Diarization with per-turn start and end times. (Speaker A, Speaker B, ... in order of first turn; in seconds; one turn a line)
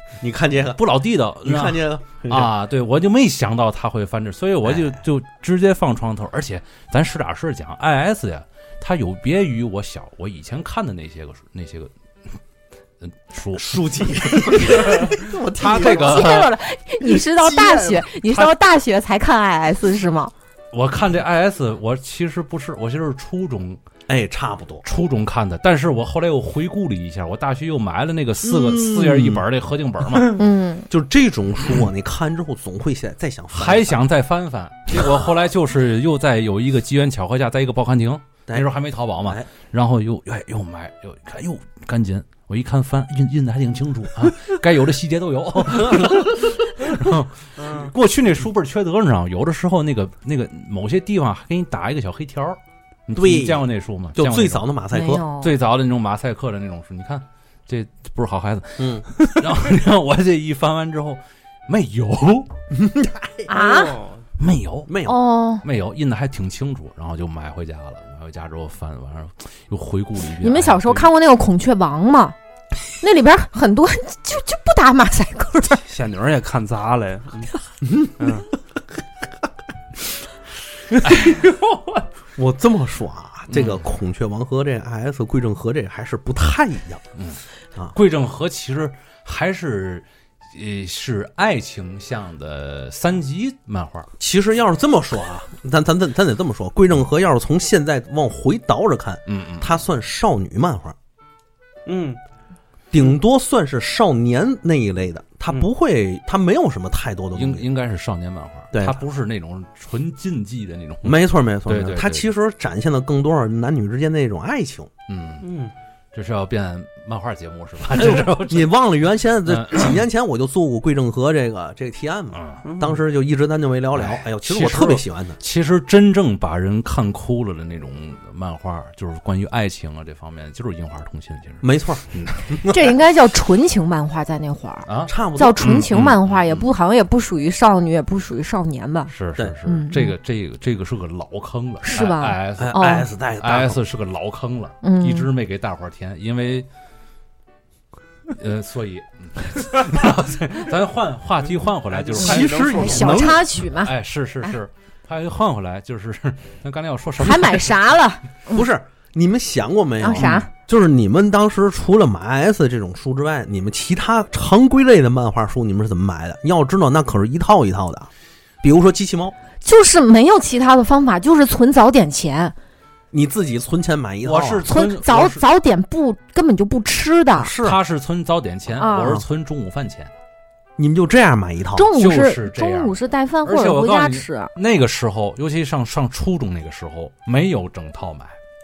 Speaker A: 0.2-0.8
Speaker B: 0.8-11.9
Speaker A: 1.4-2.5
Speaker A: 4.6-5.0
Speaker B: 13.0-13.8
Speaker A: 13.6-16.4
Speaker B: 14.4-16.5
Speaker C: 15.6-20.3
Speaker A: 17.3-18.3
Speaker B: 20.7-23.8
Speaker A: 24.1-24.9
Speaker B: 24.8-30.4
Speaker A: 28.5-29.4
Speaker C: 30.4-30.9
Speaker A: 30.9-34.0
Speaker B: 33.5-62.5
Speaker A: 53.1-53.6
Speaker A: 54.1-55.2
Speaker C: 54.9-55.5
Speaker A: 58.8-59.1
Speaker A: 62.7-63.5
Speaker C: 63.5-64.0
Speaker D: 63.5-64.2
Speaker B: 64.4-64.9
Speaker A: 64.9-65.2
Speaker C: 65.1-65.6
Speaker B: 65.6-71.1
Speaker C: 70.4-72.4
Speaker C: 73.0-75.8
Speaker D: 75.9-77.5
Speaker A: 77.8-78.1
Speaker D: 78.2-78.5
Speaker B: 81.0-81.4
Speaker D: 81.3-82.0
Speaker A: 82.4-87.0
Speaker B: 83.5-83.8
Speaker B: 87.9-94.1
Speaker A: 94.2-101.0
Speaker B: 99.3-99.8
Speaker D: 101.9-102.2
Speaker A: 102.9-107.7
Speaker B: 107.3-112.3
Speaker A: 108.7-109.0
Speaker A: 111.0-114.9
Speaker B: 115.1-115.5
Speaker D: 115.4-115.7
Speaker B: 116.1-118.7
Speaker A: 117.9-125.4
Speaker B: 119.5-120.0
Speaker B: 122.3-122.6
Speaker D: 122.6-123.0
Speaker B: 123.9-132.5
Speaker A: 131.6-132.8
Speaker C: 132.7-139.1
Speaker B: 134.9-136.7
Speaker A: 135.1-135.8
Speaker B: 139.1-146.7
Speaker C: 139.7-140.1
Speaker C: 141.8-143.1
Speaker A: 142.6-143.8
Speaker C: 144.8-145.3
Speaker B: 148.3-157.8
Speaker D: 151.9-153.1
Speaker A: 152.2-153.4
Speaker C: 152.3-153.9
Speaker C: 157.2-158.6
Speaker A: 158.5-168.1
Speaker C: 160.0-160.5
Speaker A: 168.6-169.4
Speaker C: 169.6-172.6
Speaker A: 173.1-174.7
Speaker B: 174.2-175.4
Speaker C: 174.7-177.6
Speaker B: 177.4-180.1
Speaker A: 177.5-177.8
Speaker C: 178.8-179.2
Speaker A: 180.8-181.9
Speaker C: 181.8-184.5
Speaker B: 181.9-188.4